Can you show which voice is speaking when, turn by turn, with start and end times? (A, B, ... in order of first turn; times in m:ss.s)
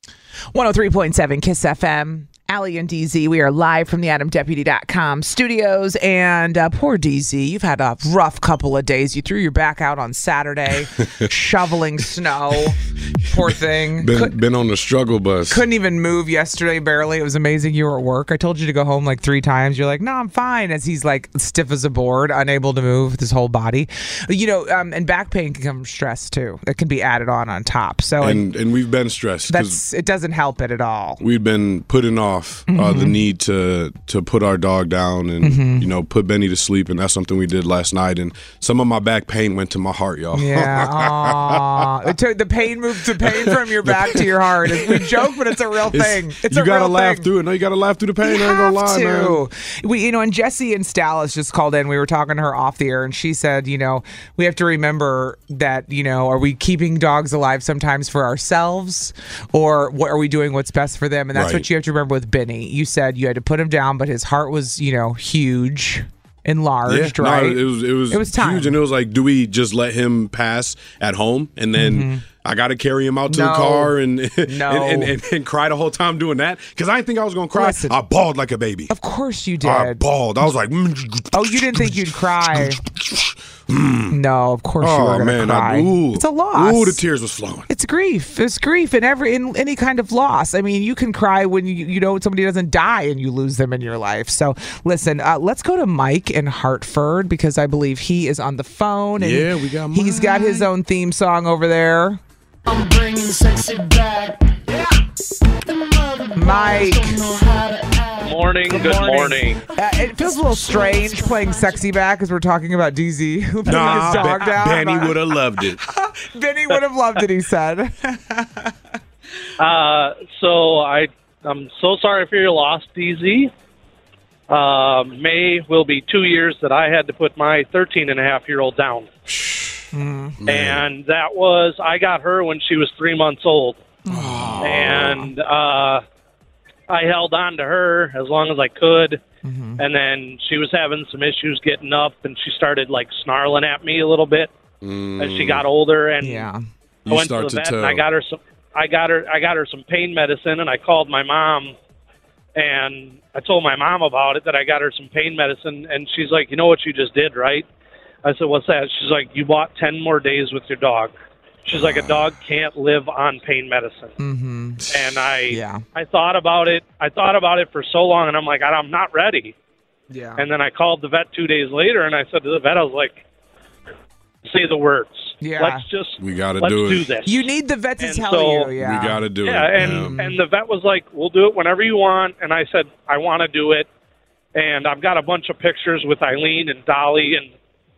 0:00.5-0:14.3 A
0:11.0-0:11.3 B
0:13.4-0:15.6 B
0:15.5-0:28.4 A
0:28.2-0:29.8 B
0:29.5-0:31.2 A
0:31.2-0:41.9 B
0:32.7-0:33.2 A
0:35.4-0:35.9 A
0:40.3-0:47.3 A
0:43.2-0:45.4 B
0:45.9-0:49.4 B
0:48.2-1:08.8 A
1:01.3-1:01.7 B
1:06.9-1:18.9 B
1:11.8-1:12.2 A
1:13.3-1:13.9 A
1:14.4-1:15.1 A
1:17.5-1:18.0 A
1:18.9-1:20.0 A
1:19.6-1:24.2 B
1:21.3-1:22.8 A
1:24.1-1:27.0 A
1:24.8-1:27.7 B
1:27.7-1:42.2 A
1:39.2-1:40.7 B
1:42.7-1:44.7 C
1:45.5-1:48.5 C
1:46.4-1:47.2 A
1:48.2-1:49.6 D
1:48.7-1:55.2 A
1:50.0-1:51.8 C
1:53.7-1:55.8 B
1:55.8-1:58.7 A
1:59.6-2:03.5 D
2:04.5-2:09.1 D
2:09.3-2:09.8 B
2:09.9-2:10.4 A
2:10.4-2:10.8 B
2:10.5-2:13.8 D
2:14.1-2:15.3 A
2:14.1-2:15.2 B
2:14.6-2:16.0 D
2:16.9-2:19.2 D
2:19.4-2:19.8 A
2:19.8-2:24.5 D
2:24.8-2:25.6 B
2:25.2-2:26.5 D
2:26.2-2:26.6 A
2:27.1-2:28.0 B
2:27.1-2:31.7 D
2:32.6-2:37.6 D
2:38.2-2:41.1 D
2:41.6-2:44.2 D
2:41.8-2:42.3 B
2:44.2-2:44.9 A
2:44.9-2:49.6 D
2:45.5-2:45.8 A
2:50.1-2:50.4 A
2:50.4-2:53.2 D
2:54.4-2:57.5 D
2:55.4-2:55.8 A
2:56.2-2:57.0 B
2:57.3-2:59.2 A
2:58.0-2:58.7 D
2:58.8-3:00.2 B
2:59.4-3:03.9 D
2:59.8-3:00.4 A
3:04.6-3:07.5 D